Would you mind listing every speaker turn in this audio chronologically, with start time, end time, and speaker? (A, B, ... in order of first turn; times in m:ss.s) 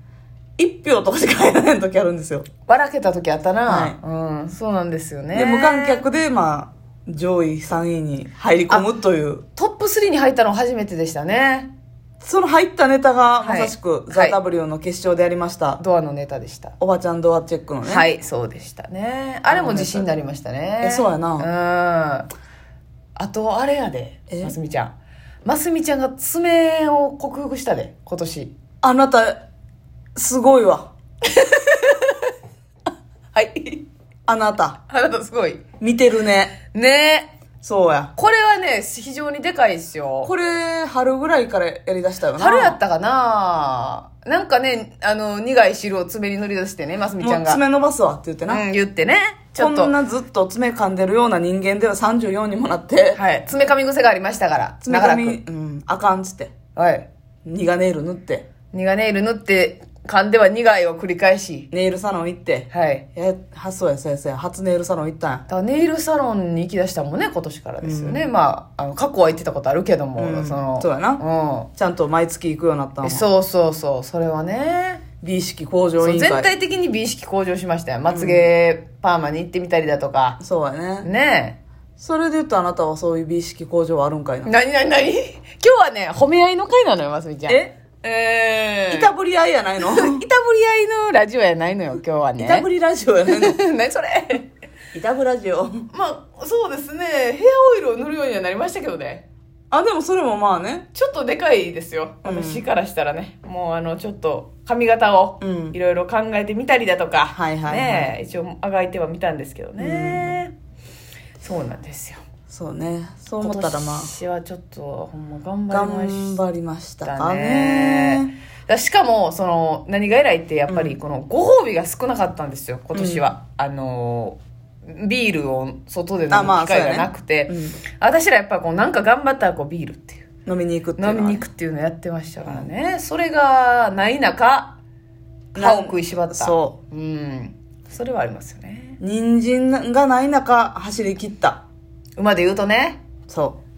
0:00.6-0:02.5 A
0:02.7-0:06.0 B
0:03.7-0:04.0 A
0:05.3-0:09.4 A
0:09.6-0:11.7 B
0:12.2-0:15.8 A
0:13.4-0:14.4 B
0:15.8-0:16.8 B
0:16.8-0:18.1 A
0:17.8-0:22.3 B
0:19.5-0:20.1 A
0:20.8-0:21.5 A
0:23.2-0:24.9 B
0:24.3-0:24.6 A
0:25.4-0:28.5 B
0:28.8-0:29.4 A
0:30.2-0:30.9 A
0:31.2-0:32.3 B
0:33.3-0:33.9 B
0:34.3-0:34.8 A
0:34.9-0:35.6 B
0:35.8-0:36.6 A
0:36.7-0:37.3 B
0:37.6-0:38.1 A
0:38.2-0:40.3 B
0:40.2-0:42.8 A
0:42.4-0:47.6 B
0:47.2-0:48.6 A
0:48.5-0:49.9 B
0:49.6-0:53.2 A
0:53.2-0:55.4 B
0:54.8-0:56.6 A
0:56.8-0:57.1 B
0:57.4-0:58.5 A
0:58.7-1:01.7 B
1:01.7-1:05.4 A
1:02.7-1:03.0 B
1:05.5-1:11.7 B
1:07.8-1:08.3 A
1:10.2-1:11.2 A
1:11.8-1:13.2 A
1:13.0-1:15.0 B
1:15.2-1:16.5 A
1:16.0-1:20.4 B
1:18.1-1:18.5 A
1:20.4-1:21.1 A
1:21.0-1:21.6 B
1:22.0-1:24.5 A
1:24.4-1:29.1 B
1:27.5-1:27.8 A
1:28.9-1:30.2 A
1:29.8-1:32.7 B
1:32.4-1:33.6 A
1:33.3-1:34.5 B
1:34.9-1:35.9 A
1:35.9-1:39.2 B
1:39.7-1:40.9 A
1:40.9-1:50.5 B
1:42.2-1:42.7 A
1:45.4-1:45.8 A
1:47.3-1:48.2 A
1:49.8-1:50.4 A
1:51.4-1:52.2 B
1:52.5-1:54.1 A
1:53.4-1:56.4 B
1:55.7-1:58.3 A
1:57.0-2:10.2 B
2:00.7-2:01.0 A
2:02.9-2:03.3 A
2:06.3-2:07.8 A
2:10.5-2:11.5 A
2:11.0-2:14.8 B
2:15.5-2:16.8 A
2:15.6-2:19.0 B
2:19.0-2:21.6 A
2:22.2-2:23.0 B
2:23.3-2:23.6 A